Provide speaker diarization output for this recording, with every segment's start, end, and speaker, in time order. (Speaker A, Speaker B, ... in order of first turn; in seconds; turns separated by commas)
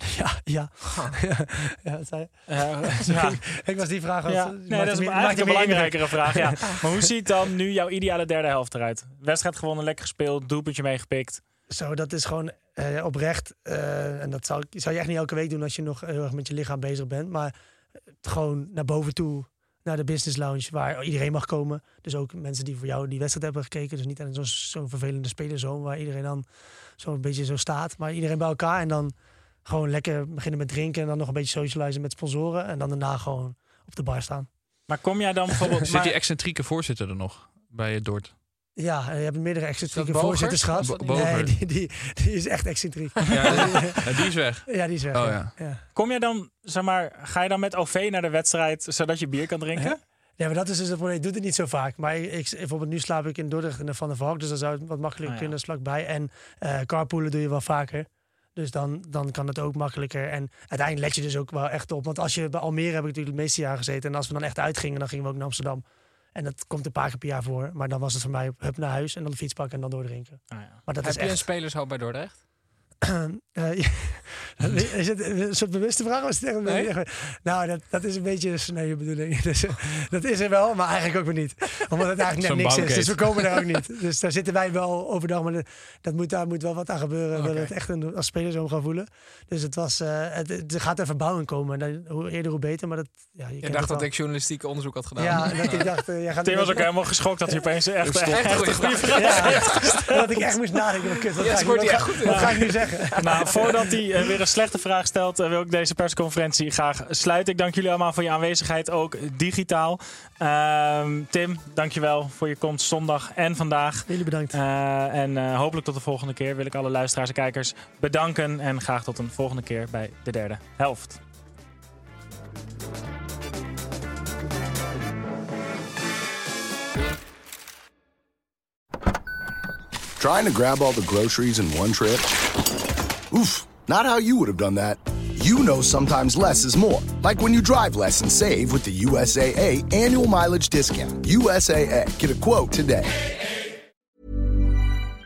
Speaker A: 0.1-6.8, Speaker B: 0.8-1.1, Speaker C: 2.5-3.5, Speaker C: 4.2-11.4, Speaker A: 11.7-17.5, Speaker A: 18.2-26.4, Speaker A: 27.0-34.5, Speaker C: 34.9-36.1, Speaker D: 35.9-38.3, Speaker A: 38.8-44.1, Speaker B: 39.9-41.3, Speaker D: 40.8-41.6, Speaker D: 43.3-45.6, Speaker A: 44.6-45.8, Speaker C: 45.9-50.0, Speaker A: 49.8-65.8, Speaker C: 55.2-55.5, Speaker A: 66.3-71.5, Speaker C: 70.5-70.8, Speaker B: 71.0-72.4, Speaker A: 73.1-94.1, Speaker B: 76.6-76.9, Speaker D: 82.4-83.7, Speaker B: 93.6-95.8, Speaker A: 95.2-96.9, Speaker C: 96.4-100.0, Speaker D: 98.0-98.9, Speaker B: 98.3-100.1, Speaker A: 99.2-103.5, Speaker B: 101.4-103.2, Speaker C: 102.2-121.2, Speaker A: 114.1-114.6, Speaker E: 130.2-132.3, Speaker E: 133.3-143.1